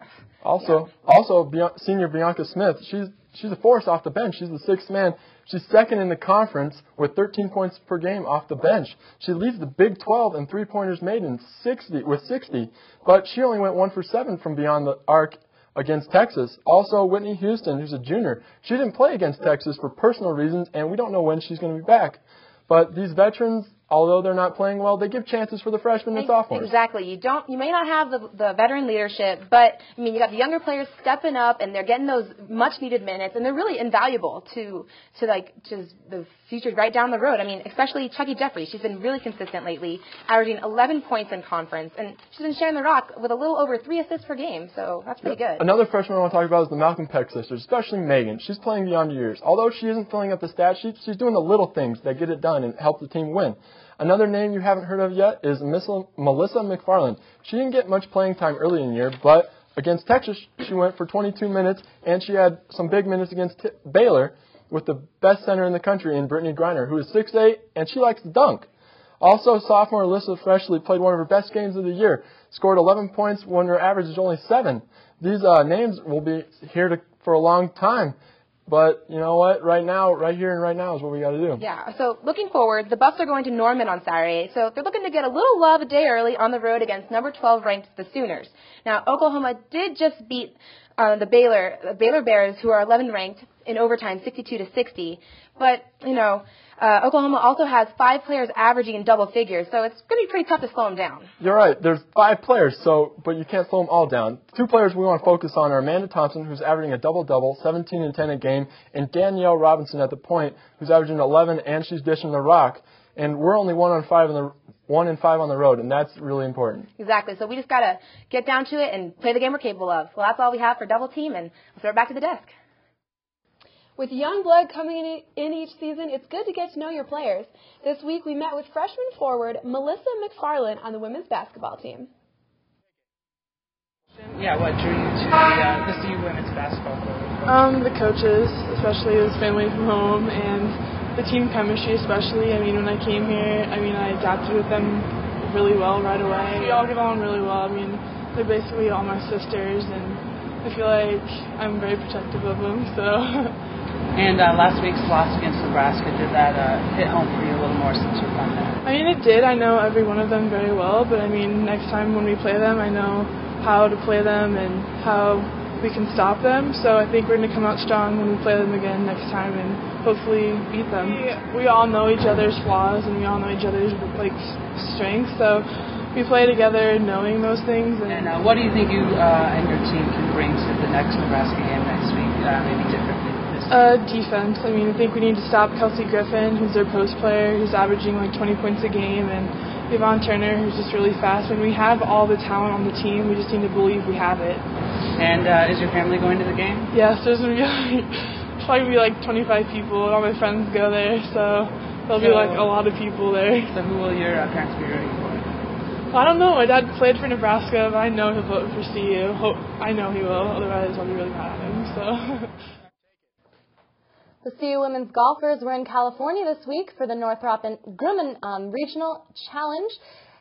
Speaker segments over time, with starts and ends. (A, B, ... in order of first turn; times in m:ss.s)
0:00.4-0:26.7 A
0:26.1-0:45.6 B
0:45.6-1:08.7 A
1:09.2-1:18.2 A
1:18.7-1:21.6 A
1:21.6-1:41.3 B
1:41.4-1:56.9 A
1:57.0-2:02.5 B
2:04.0-2:12.1 C
2:14.3-2:17.4 D
2:17.5-2:33.6 E
2:34.1-2:38.8 D
2:38.8-2:58.4 E
2:58.1-3:03.9 D
3:03.7-3:14.6 E
3:15.2-3:16.9 D
3:16.9-3:23.8 E
3:22.1-3:22.8 D
3:23.7-3:25.5 D
3:26.1-3:32.5 E
3:34.4-3:40.0 F